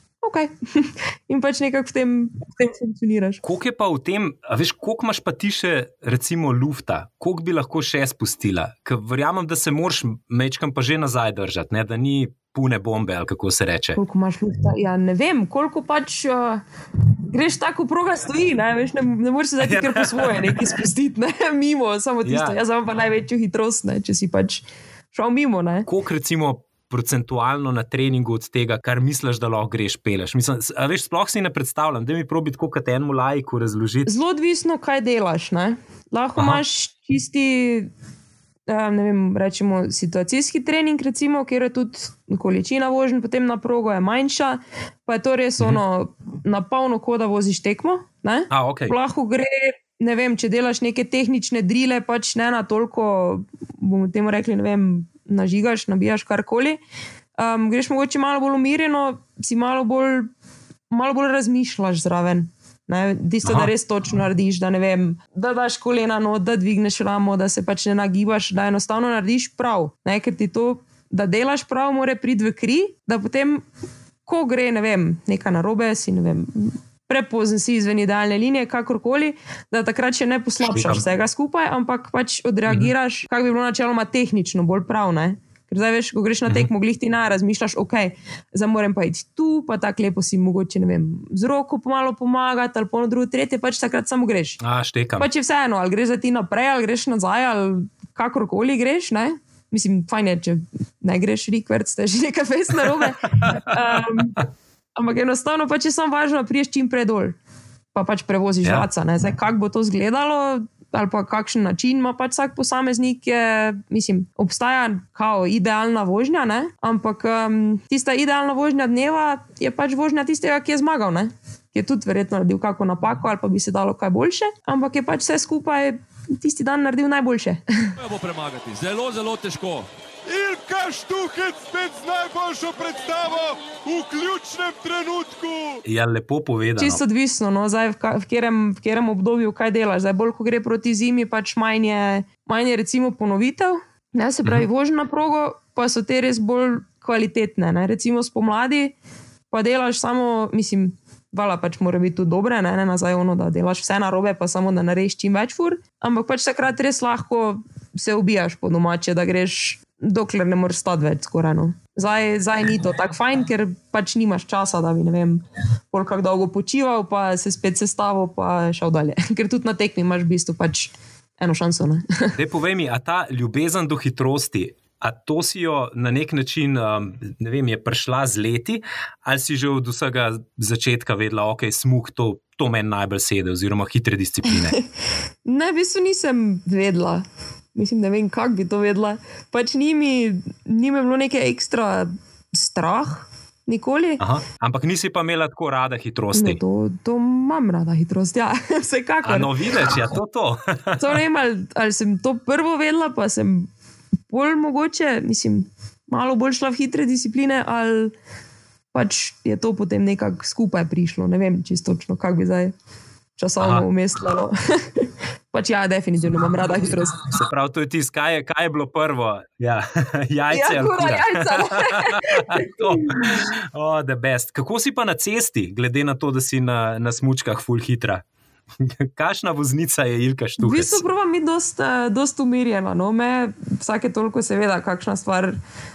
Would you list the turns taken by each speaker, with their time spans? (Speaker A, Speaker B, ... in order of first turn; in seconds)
Speaker A: 0.2-3.4, 14.0-16.6, 17.3-25.9, 34.1-37.9, 38.7-56.8, 57.4-60.3, 60.9-73.7, 74.3-94.6, 95.2-104.4, 105.0-107.4, 107.9-127.9, 136.8-148.9, 149.5-172.3, 184.5-184.8, 185.5-194.2, 196.3-200.0, 201.0-203.7, 204.3-208.1, 208.9-212.7, 213.4-217.3, 220.5-223.4, 230.6-235.6
Speaker B: 3.4-14.0, 19.6-20.7, 22.2-22.6, 25.9-34.1, 48.5-49.0, 63.4-63.7, 80.6-81.0, 82.7-82.9, 94.6-95.3, 135.8-137.0, 172.4-184.8, 194.2-196.6, 199.2-201.1, 213.6-213.9, 217.3-228.2, 228.8-231.0
Speaker C: 128.0-135.8